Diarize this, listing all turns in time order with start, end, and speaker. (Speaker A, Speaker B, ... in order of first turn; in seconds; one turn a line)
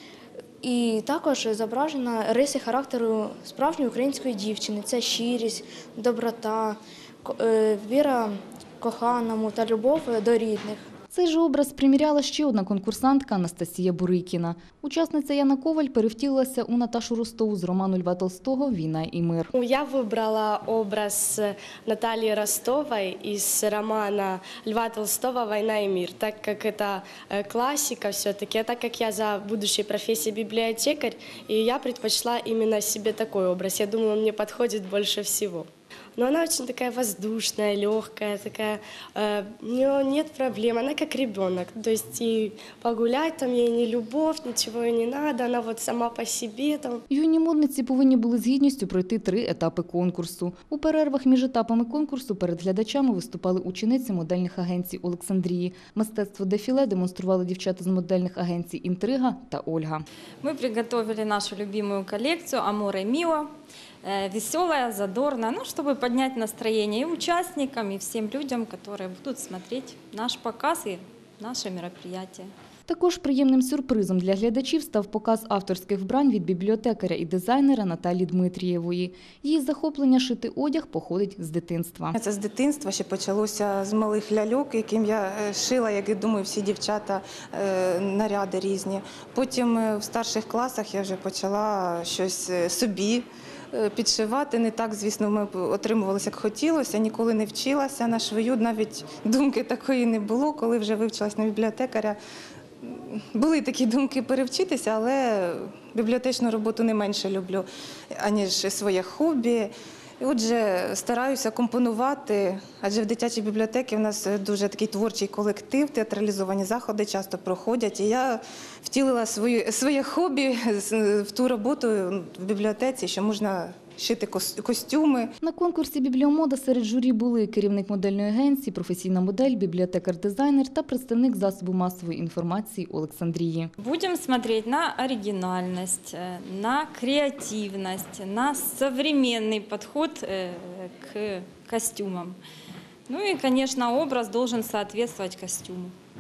Speaker A: 0.6-10.8
Speaker B: 11.1-19.5
Speaker C: 19.5-47.0
Speaker B: 47.1-60.0
Speaker D: 60.4-63.5
Speaker D: 64.0-72.5
Speaker B: 72.9-82.2
Speaker E: 82.2-102.2
Speaker E: 102.8-125.3
Speaker B: 125.4-133.7
Speaker D: 133.8-142.4
Speaker D: 143.1-145.9